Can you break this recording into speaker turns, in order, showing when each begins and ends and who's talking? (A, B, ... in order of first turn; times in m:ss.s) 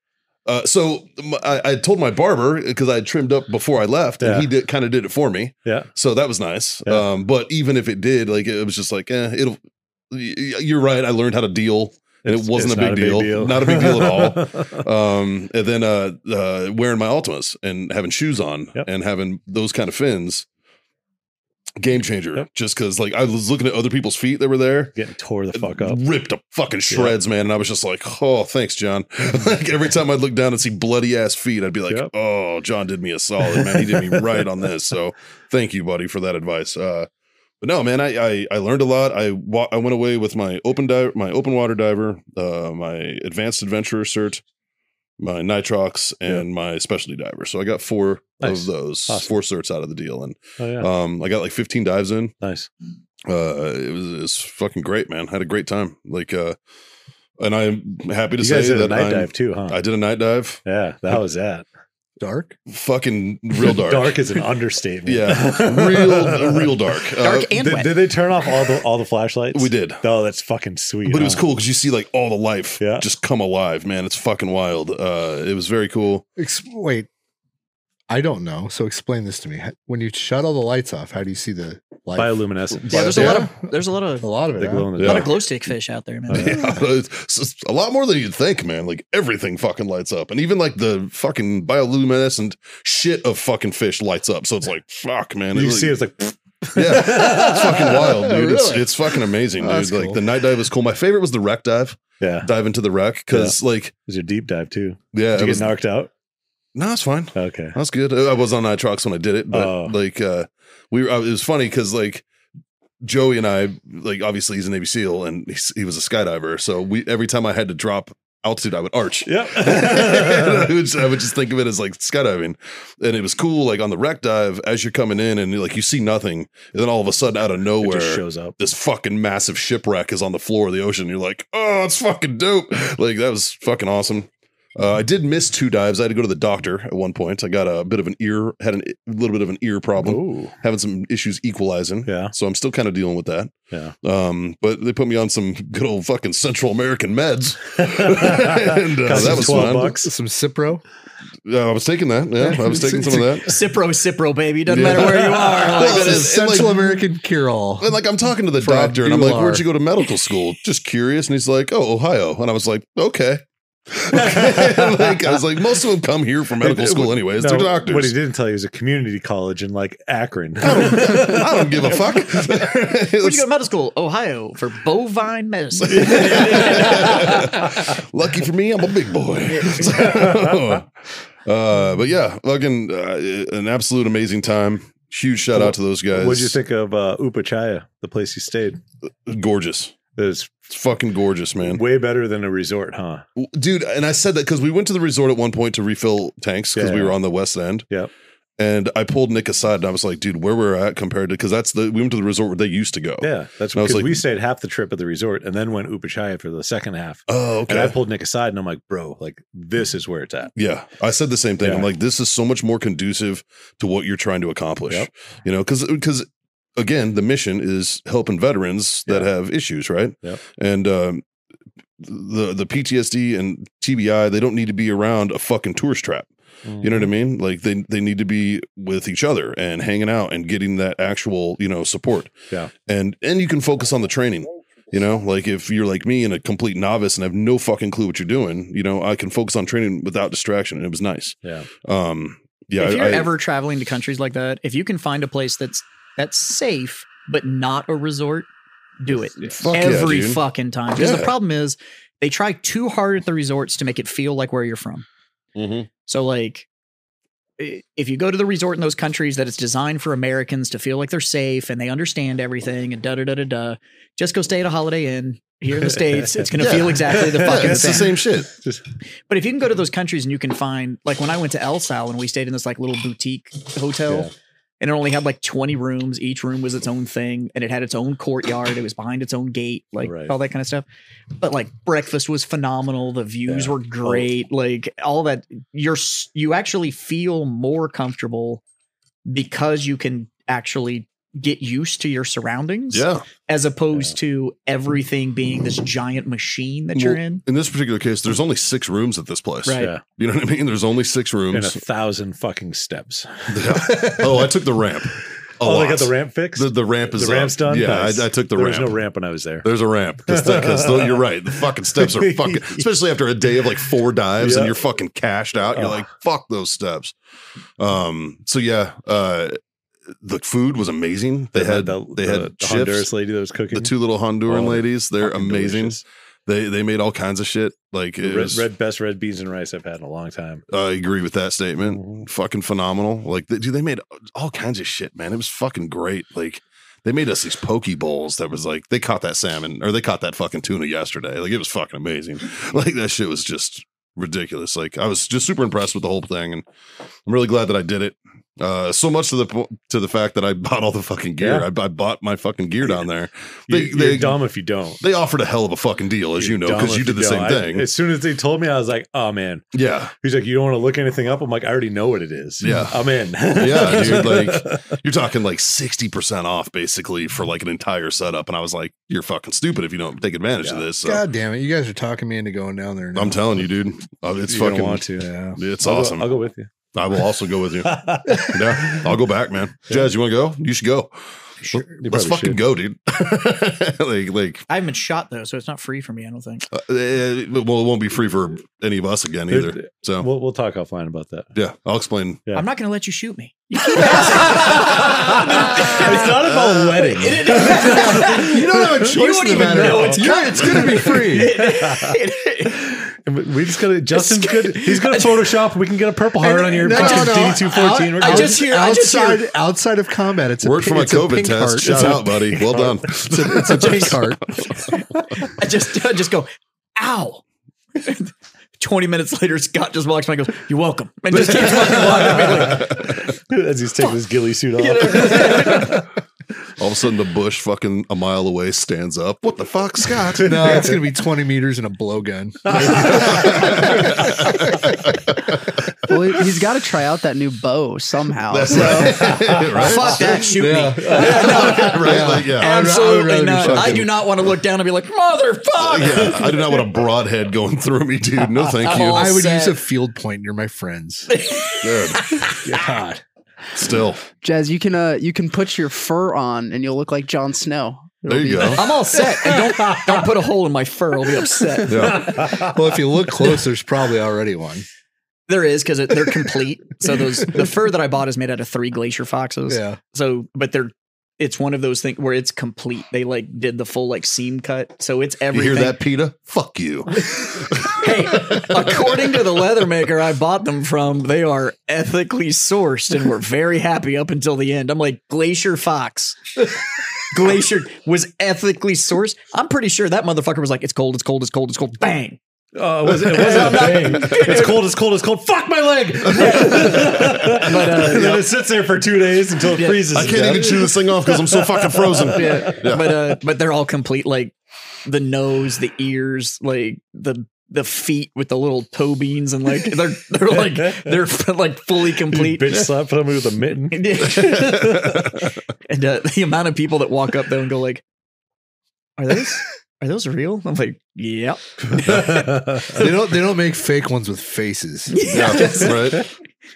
0:00.4-0:20.4 A
0:04.2-0:04.5 B
0:12.2-0:14.8 B
0:21.8-0:25.0 A
0:24.9-0:26.0 B
0:25.5-0:37.1 A
0:26.9-0:27.2 B
0:33.4-0:34.5 B
0:37.6-0:44.4 A
0:45.2-0:52.3 A
0:48.4-0:49.3 B
0:50.6-0:50.9 B
0:52.4-0:52.7 B
0:53.3-0:56.6 A
0:57.4-1:00.6 A
0:58.4-0:59.8 B
1:00.6-1:01.6 B
1:02.2-1:02.6 C
1:02.7-1:04.2 A
1:03.6-1:11.4 B
1:05.0-1:07.5 A
1:07.2-1:07.9 D
1:09.5-1:10.0 A
1:11.0-1:16.2 A
1:12.8-1:13.0 B
1:16.4-1:17.1 C
1:18.1-1:22.4 C
1:22.2-1:23.4 B
1:22.9-1:24.3 D
1:22.9-1:23.4 A
1:23.0-1:23.7 C
1:24.2-1:25.2 C
1:24.6-1:25.4 B
1:25.0-1:26.6 D
1:26.3-1:26.6 B
1:26.3-1:35.9 A
1:35.5-1:38.0 B
1:36.7-1:43.9 A
1:37.1-1:40.2 C
1:42.2-1:42.5 B
1:43.3-1:46.1 B
1:45.1-1:45.8 A
1:46.7-1:52.2 A
1:47.3-1:47.8 B
1:49.5-1:49.9 B
1:53.0-2:30.0 A
1:59.2-2:00.7 B
2:07.8-2:08.6 B
2:20.0-2:20.5 B
2:22.0-2:22.3 B
2:28.2-2:30.1 B
2:29.1-2:30.8 C
2:31.4-2:33.6 A
2:32.7-2:33.2 C
2:33.1-2:36.3 D
2:34.7-2:37.0 A
2:35.8-2:38.0 C
2:37.8-2:48.1 A
2:38.6-2:39.6 C
2:44.2-2:45.2 B
2:46.6-2:52.4 B
2:50.6-2:53.4 A
2:53.2-2:57.3 D
2:55.8-3:00.9 A
2:55.9-2:57.8 B
2:59.4-3:00.1 D
3:00.0-3:00.6 B
3:01.4-3:06.6 A
3:05.5-3:08.8 B
3:09.3-3:10.0 A
3:10.2-3:10.7 B
3:10.7-3:11.8 A
3:11.6-3:13.2 B
3:13.4-3:17.8 A
3:16.7-3:17.2 B
3:18.6-3:24.2 A
3:23.2-3:30.5 B
3:27.3-3:28.0 A
3:30.6-3:41.2 A
3:31.6-3:31.9 B
3:42.0-3:46.3 A
3:46.6-3:47.1 B
3:46.8-4:03.3 A
4:01.4-4:01.7 B
4:02.8-4:08.5 D
4:09.0-4:15.0 D
4:09.4-4:09.7 B
4:09.6-4:10.4 A
4:11.0-4:11.3 A
4:15.5-4:15.9 A
4:16.0-4:16.7 D
4:17.6-4:28.1 D
4:25.8-4:26.5 B
4:26.6-4:28.5 A
4:27.0-4:28.8 B
4:29.3-4:40.8 D
4:40.0-4:40.3 B
4:41.4-4:48.6 D
4:43.5-4:44.2 B
4:49.2-4:57.4 D
4:52.9-4:53.2 A
4:56.9-5:01.8 A
4:59.6-4:59.9 D
4:59.8-5:00.0 B
5:01.5-5:04.2 B
5:03.5-5:09.0 A
5:05.6-5:09.7 B
5:09.6-5:17.1 A
5:10.3-5:12.9 B
5:14.4-5:14.7 B
5:15.7-5:16.0 B
5:17.8-5:19.6 A
5:20.2-5:23.1 A
5:21.5-5:26.0 B
5:23.7-5:28.6 A
5:28.2-5:30.6 B
5:30.7-5:46.6 A
5:31.9-5:32.2 B
5:47.2-5:54.4 A
5:51.4-5:51.7 B
5:53.7-5:55.0 B
5:55.0-5:57.9 A
5:56.4-6:04.8 B
5:59.7-6:00.1 A
6:02.6-6:11.2 A
6:11.0-6:13.4 C
6:13.1-6:15.0 A
6:14.5-6:16.7 B
6:15.2-6:15.6 C
6:15.6-6:16.3 A
6:16.9-6:24.6 A
6:17.8-6:19.1 B
6:22.0-6:22.6 B
6:24.7-6:26.6 D
6:26.7-6:30.3 A
6:29.5-6:31.5 B
6:31.5-6:32.4 A
6:32.5-6:36.4 D
6:34.0-6:38.5 B
6:36.6-6:37.0 A
6:37.1-6:43.0 D
6:38.0-6:40.2 A
6:39.5-6:41.5 C
6:39.7-6:40.2 B
6:41.0-6:42.2 B
6:42.7-6:48.6 B
6:44.1-6:45.5 D
6:46.4-6:47.6 D
6:46.6-6:54.6 C
6:48.2-6:49.4 D
6:50.6-6:54.2 A
6:53.6-6:57.4 D
6:57.9-7:03.2 D
7:01.4-7:06.0 B
7:04.8-7:06.0 D
7:06.8-7:10.9 A
7:10.4-7:14.6 C
7:12.7-7:14.4 B
7:12.8-7:15.7 A
7:16.0-7:19.4 E
7:18.5-7:22.7 A
7:18.9-7:19.4 B
7:19.7-7:26.8 D
7:20.4-7:24.1 C
7:23.6-7:24.1 A
7:25.8-7:29.3 A
7:28.7-7:29.8 D
7:28.9-7:31.3 C
7:31.3-7:32.7 D
7:31.8-7:32.4 A
7:32.6-7:33.2 C
7:33.7-7:34.2 A
7:34.4-7:38.8 E
7:38.3-7:38.8 A
7:38.7-7:42.2 D
7:41.9-7:42.4 A
7:41.9-7:44.8 C
7:42.2-7:42.6 B
7:45.5-7:56.0 D
7:49.7-7:50.0 C
7:55.5-7:59.3 A
7:57.9-8:06.7 D
8:07.3-8:12.4 D
8:12.7-8:22.8 B
8:13.3-8:14.8 D
8:16.3-8:18.4 D
8:16.4-8:18.4 A
8:19.7-8:20.6 D
8:20.1-8:23.2 A
8:22.3-8:24.5 D
8:25.0-8:32.9 D
8:32.3-8:34.4 B
8:33.9-8:35.1 D
8:34.4-8:35.4 A
8:35.8-8:38.0 D
8:39.2-8:42.3 D
8:41.9-8:42.5 A
8:42.3-8:42.9 B
8:42.9-8:45.2 C
8:45.1-8:46.3 D
8:45.3-8:46.3 A